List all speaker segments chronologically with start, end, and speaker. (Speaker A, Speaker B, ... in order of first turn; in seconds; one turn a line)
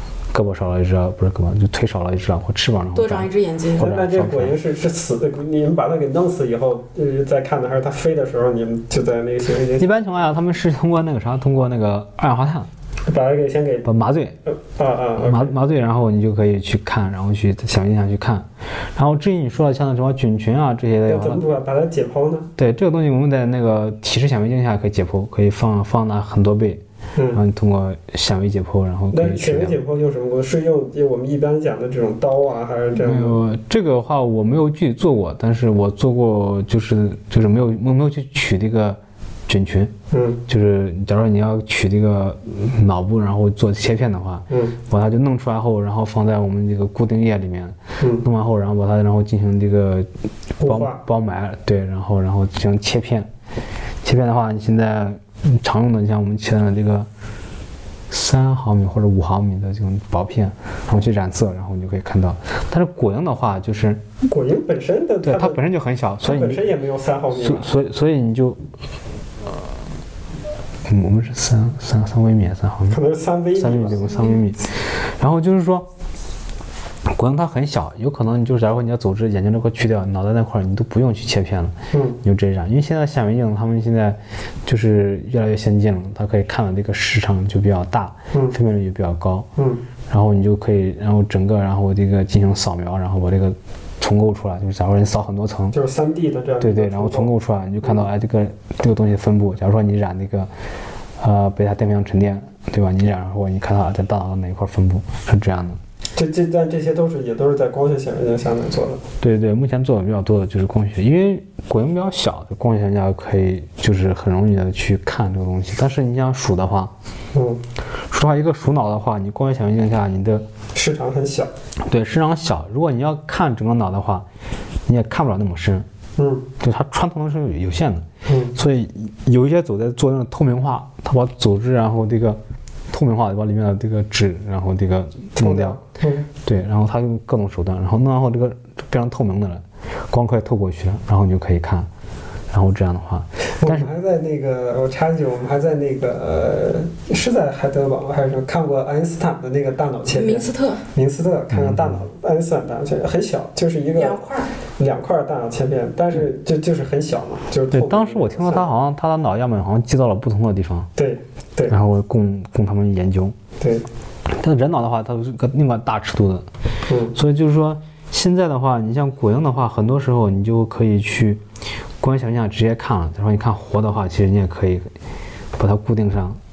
Speaker A: 0.3-4.5
Speaker B: 2.9-3.9
Speaker C: 3.8-9.9
Speaker A: 9.8-12.7
Speaker C: 13.1-13.9
Speaker A: 13.8-14.3
Speaker C: 14.6-15.5
Speaker A: 15.2-21.4
Speaker C: 21.1-22.5
Speaker A: 22.6-29.8
Speaker C: 27.1-27.4
Speaker C: 29.1-33.4
Speaker A: 33.0-39.9
Speaker C: 40.1-40.4
Speaker A: 40.5-50.1
Speaker C: 44.5-44.8
Speaker C: 48.0-48.2
Speaker C: 50.6-51.0
Speaker A: 50.6-53.3
Speaker A: 54.0-57.1
Speaker A: 58.1-64.0
Speaker C: 64.3-65.6
Speaker A: 65.2-66.6
Speaker C: 66.2-67.7
Speaker A: 67.4-68.6
Speaker A: 70.9-73.0
Speaker C: 72.9-74.2
Speaker A: 73.5-75.9
Speaker A: 77.1-89.5
Speaker C: 81.9-82.2
Speaker C: 89.6-89.8
Speaker A: 90.1-95.8
Speaker C: 95.7-97.3
Speaker A: 96.6-100.5
Speaker A: 101.2-105.8
Speaker C: 106.2-109.0
Speaker A: 109.2-116.9
Speaker C: 117.3-117.6
Speaker A: 118.1-120.5
Speaker C: 120.7-121.5
Speaker A: 121.8-124.2
Speaker A: 124.9-125.9
Speaker C: 126.2-126.5
Speaker A: 126.6-132.4
Speaker C: 128.3-128.6
Speaker A: 132.9-135.8
Speaker C: 135.4-136.3
Speaker A: 136.4-141.9
Speaker A: 142.5-143.9
Speaker C: 143.6-154.2
Speaker B: 150.1-150.8
Speaker A: 151.5-152.0
Speaker B: 153.9-154.5
Speaker C: 154.8-158.7
Speaker A: 157.7-160.9
Speaker C: 161.0-161.8
Speaker A: 161.7-163.4
Speaker C: 163.6-163.8
Speaker A: 164.3-166.5
Speaker C: 166.9-167.1
Speaker A: 167.1-171.4
Speaker A: 172.0-174.9
Speaker A: 175.6-176.4